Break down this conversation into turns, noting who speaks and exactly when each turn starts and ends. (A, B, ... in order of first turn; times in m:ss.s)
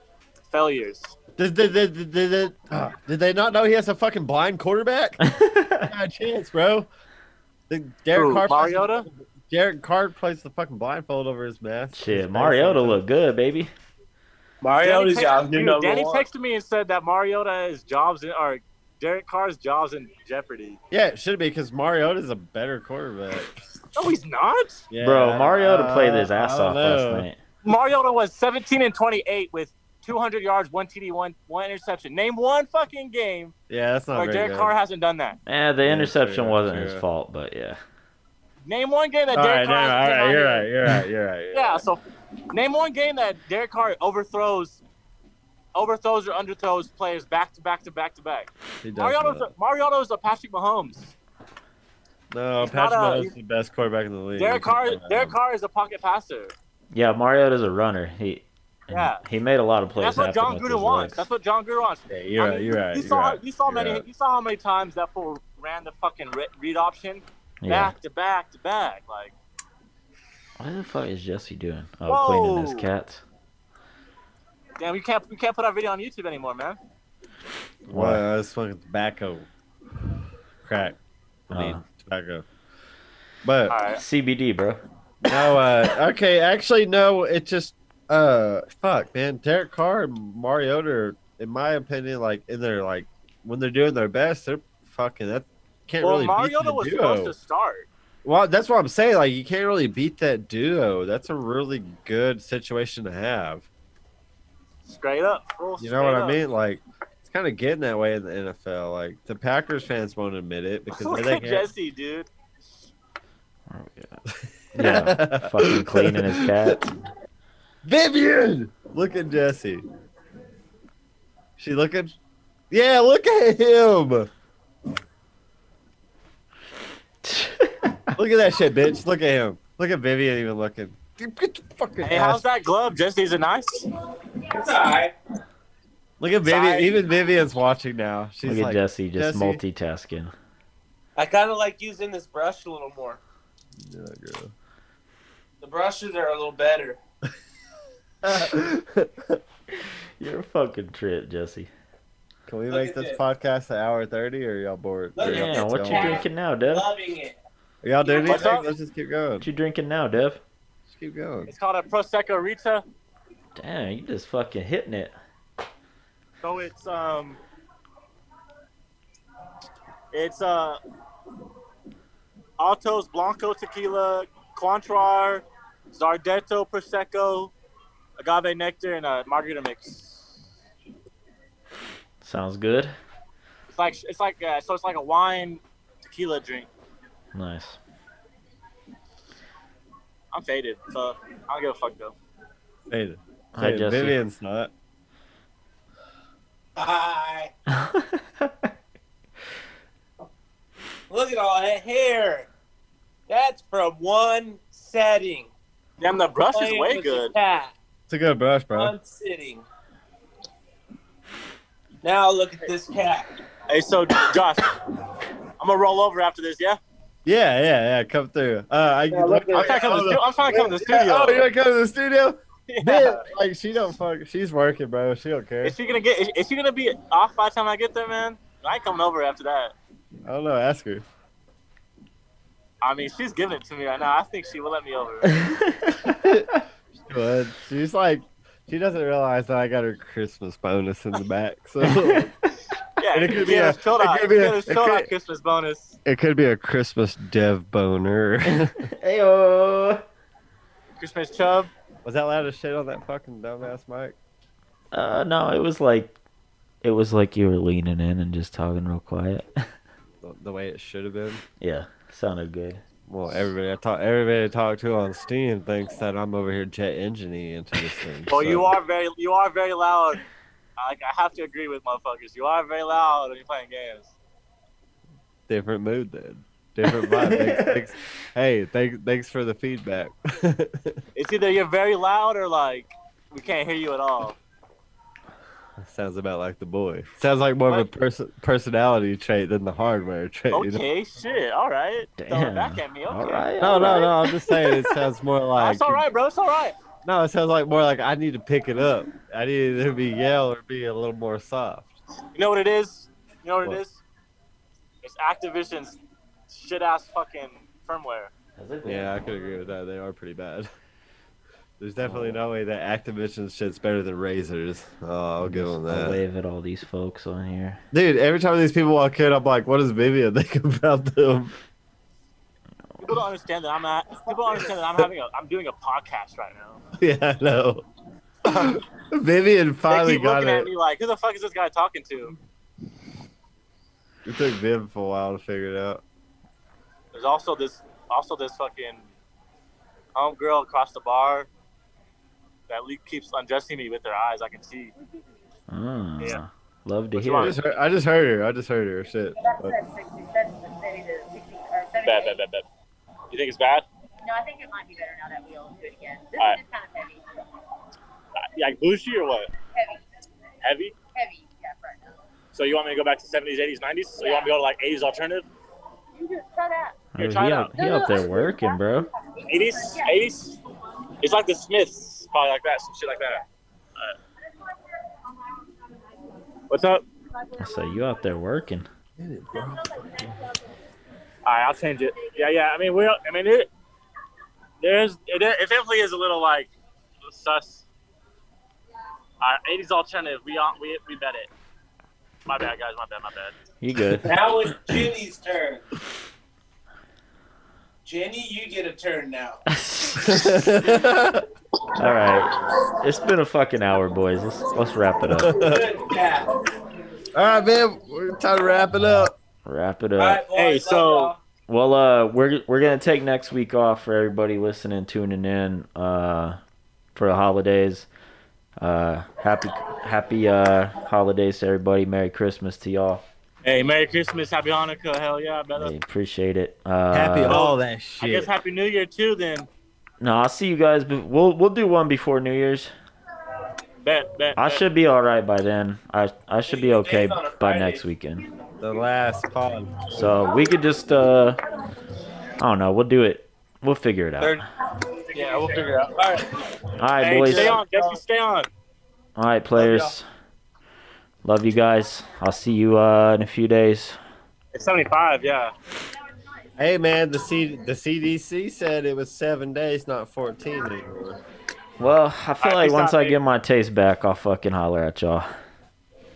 0:00.5-0:01.2 A
0:01.4-0:05.2 B
0:05.2-0:05.9 C
0:05.9-0:06.9 B
0:07.7-0:13.0 B
0:08.1-0:09.1 A
0:12.0-0:13.7 C
0:14.6-0:16.3 D
0:14.8-0:20.8 A
0:20.9-0:23.6 B
0:23.9-0:24.8 A
0:24.9-0:27.3 B
0:25.0-0:27.4 C
0:27.6-0:33.5 A
0:33.7-0:34.7 B
0:34.1-0:35.4 A
0:35.5-0:37.8 C
0:35.9-0:37.0 B
0:38.7-0:40.7 A
0:39.3-0:41.8 B
0:41.5-0:44.8 A
0:45.8-0:51.1 A
0:48.8-0:49.5 B
0:52.3-0:55.4 B
0:52.6-0:53.3 A
0:54.4-0:56.5 A
0:56.9-1:01.2 C
0:58.9-0:59.2 A
1:00.0-1:09.4 A
1:02.1-1:04.0 B
1:07.6-1:07.9 C
1:10.6-1:13.2 C
1:12.1-1:12.9 A
1:14.8-1:16.8 A
1:17.9-1:19.5 B
1:17.9-1:18.2 C
1:20.6-1:21.0 B
1:21.5-1:21.8 C
1:21.5-1:22.4 B
1:23.4-1:23.8 B
1:23.7-1:24.0 A
1:24.0-1:24.8 C
1:25.2-1:37.4 B
1:36.0-1:37.9 A
1:38.2-1:43.7 B
1:44.9-1:46.4 A
1:45.8-1:51.7 B
1:50.9-1:52.3 A
1:53.7-1:54.2 C
1:54.3-1:56.8 B
1:54.8-1:56.9 C
1:57.8-1:59.8 B
2:01.6-2:02.2 B
2:02.7-2:04.3 B
2:07.2-2:08.2 C
2:08.2-2:12.4 B
2:12.0-2:13.9 A
2:14.5-2:15.1 D
2:16.2-2:19.6 B
2:16.4-2:17.0 D
2:18.4-2:20.3 C
2:21.2-2:23.2 D
2:23.8-2:24.5 B
2:25.6-2:27.0 D
2:28.2-2:29.4 B
2:30.2-2:31.7 C
2:32.5-2:36.2 B
2:32.7-2:33.2 D
2:35.2-2:37.4 D
2:35.2-2:36.9 C
2:37.8-2:39.5 B
2:38.0-2:38.6 D
2:38.2-2:38.7 A
2:39.4-2:40.4 C
2:40.9-2:41.5 B
2:41.5-2:42.8 A
2:43.6-2:45.2 C
2:46.4-2:47.4 A
2:50.1-2:50.8 A
2:52.6-2:57.5 A
2:58.2-3:00.4 A
3:02.2-3:02.9 C
3:03.7-3:06.7 A
3:07.3-3:07.8 C
3:10.3-3:12.2 A
3:12.9-3:14.7 B
3:13.6-3:14.2 C
3:16.8-3:17.5 D
3:17.7-3:18.7 C
3:21.1-3:22.5 D
3:23.3-3:25.5 D
3:26.0-3:27.3 A
3:26.5-3:27.7 D
3:28.1-3:29.0 B
3:28.7-3:29.7 D
3:32.0-3:33.3 D
3:33.7-3:34.7 A
3:35.6-3:36.8 A
3:37.2-3:45.8 B
3:39.1-3:40.1 D
3:39.5-3:41.4 A
3:42.7-3:43.3 A
3:45.6-3:49.8 A
3:50.3-3:51.0 B
3:52.8-3:55.4 A
3:55.4-3:56.3 C
3:56.2-4:02.3 B
4:01.8-4:02.3 C
4:03.0-4:06.0 A
4:03.1-4:05.1 B
4:06.1-4:08.9 B
4:08.5-4:10.0 C
4:11.0-4:11.7 A
4:12.0-4:14.2 B
4:14.9-4:16.2 C
4:16.8-4:19.5 C
4:20.2-4:21.4 B
4:21.6-4:22.8 C
4:23.1-4:28.7 B
4:28.3-4:30.2 A
4:30.8-4:34.1 A
4:35.5-4:41.0 B
4:36.9-4:37.8 C
4:41.2-4:44.4 A
4:45.8-4:50.8 B
4:50.5-4:55.0 A
4:52.2-4:54.1 C
4:53.6-4:56.0 B
4:55.6-4:56.8 A
4:57.0-5:02.0 B
5:02.3-5:04.0 A
5:05.0-5:06.0 A
5:06.5-5:08.3 A
5:08.6-5:09.3 C
5:08.8-5:10.7 B
5:11.8-5:16.2 B
5:12.0-5:12.4 C
5:15.4-5:17.8 C
5:17.9-5:21.6 B
5:23.0-5:26.8 A
5:27.0-5:27.8 B
5:28.4-5:30.7 B
5:29.9-5:32.4 A
5:34.3-5:36.0 B
5:37.1-5:39.1 A
5:40.2-5:41.5 A
5:42.7-5:44.9 A
5:45.7-5:47.6 C
5:47.2-5:47.6 A
5:47.4-5:49.8 B
5:49.4-5:52.4 E
5:52.0-5:52.6 A
5:53.3-5:53.9 A
5:54.2-5:57.3 E
5:58.6-5:59.5 A
5:59.7-6:00.0 E
6:00.6-6:01.0 A
6:01.1-6:02.2 E
6:02.5-6:05.5 A
6:04.2-6:04.5 E
6:06.2-6:07.0 E
6:07.1-6:09.1 C
6:07.2-6:07.7 A
6:07.8-6:10.1 E
6:09.5-6:10.6 A
6:11.2-6:13.4 A
6:16.7-6:17.0 A
6:17.6-6:18.9 C
6:19.2-6:20.4 B
6:21.5-6:23.7 A
6:24.8-6:26.7 A
6:27.3-6:27.9 A
6:29.4-6:31.5 A
6:32.5-6:33.6 A
6:33.8-6:35.0 C
6:34.2-6:35.8 D
6:38.0-6:39.6 D
6:39.7-6:40.8 C
6:40.2-6:41.5 B
6:42.0-6:45.6 C
6:45.3-6:45.9 B
6:45.5-6:46.6 D
6:47.4-6:49.3 B
6:49.7-6:50.4 C
6:50.2-6:51.4 D
6:50.6-6:51.3 A
6:51.7-6:56.6 C
6:57.2-6:58.1 C
6:58.8-7:03.2 C
7:03.6-7:05.9 A
7:05.8-7:07.7 C
7:07.1-7:08.5 B
7:07.5-7:09.7 A
7:10.2-7:12.9 C
7:14.0-7:14.8 A
7:14.6-7:18.4 C
7:16.7-7:18.0 D
7:18.8-7:20.0 B
7:20.1-7:21.6 C
7:22.6-7:24.6 C
7:25.3-7:26.6 D
7:25.3-7:26.1 A
7:27.0-7:27.8 C
7:27.2-7:28.2 D
7:27.4-7:28.7 A
7:29.4-7:30.3 C
7:29.8-7:30.1 D
7:31.4-7:34.2 C
7:34.7-7:35.7 A
7:36.8-7:41.4 B
7:42.0-7:45.5 C
7:42.6-7:43.4 A